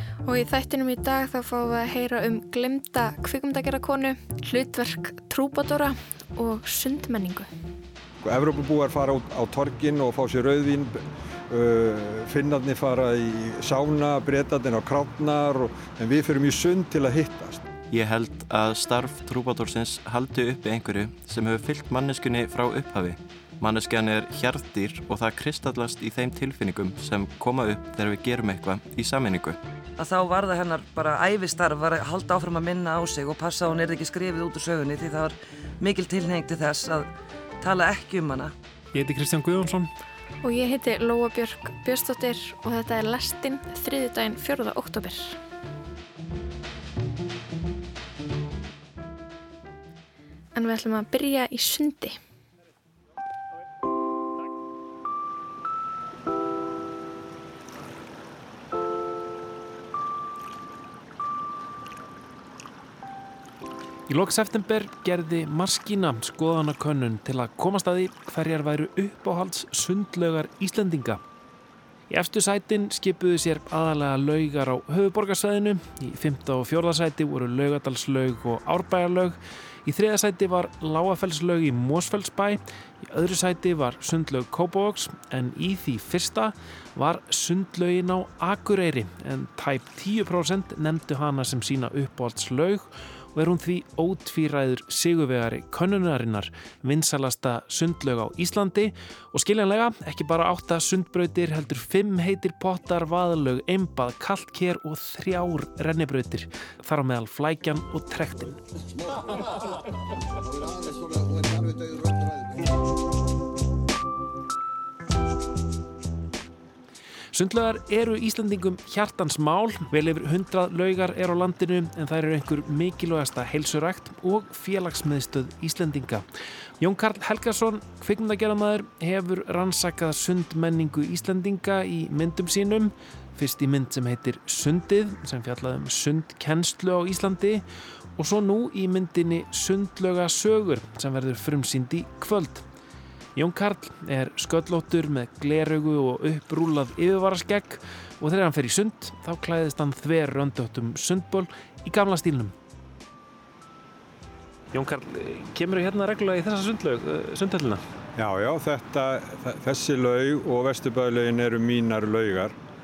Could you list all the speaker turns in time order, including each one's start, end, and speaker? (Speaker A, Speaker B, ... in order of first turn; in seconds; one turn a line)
Speaker A: 0.2-7.5
Speaker B: 8.2-17.7
Speaker C: 17.9-29.6
Speaker D: 30.0-37.1
Speaker D: 37.6-38.5
Speaker E: 38.9-39.9
Speaker A: 40.4-45.4
Speaker A: 50.5-52.2
Speaker E: 64.1-71.2
Speaker E: 72.1-108.6
Speaker E: 117.3-126.2
Speaker E: 126.8-137.6
Speaker E: 138.2-142.6
Speaker E: 143.3-152.5
Speaker E: 154.7-157.8
Speaker B: 158.2-162.6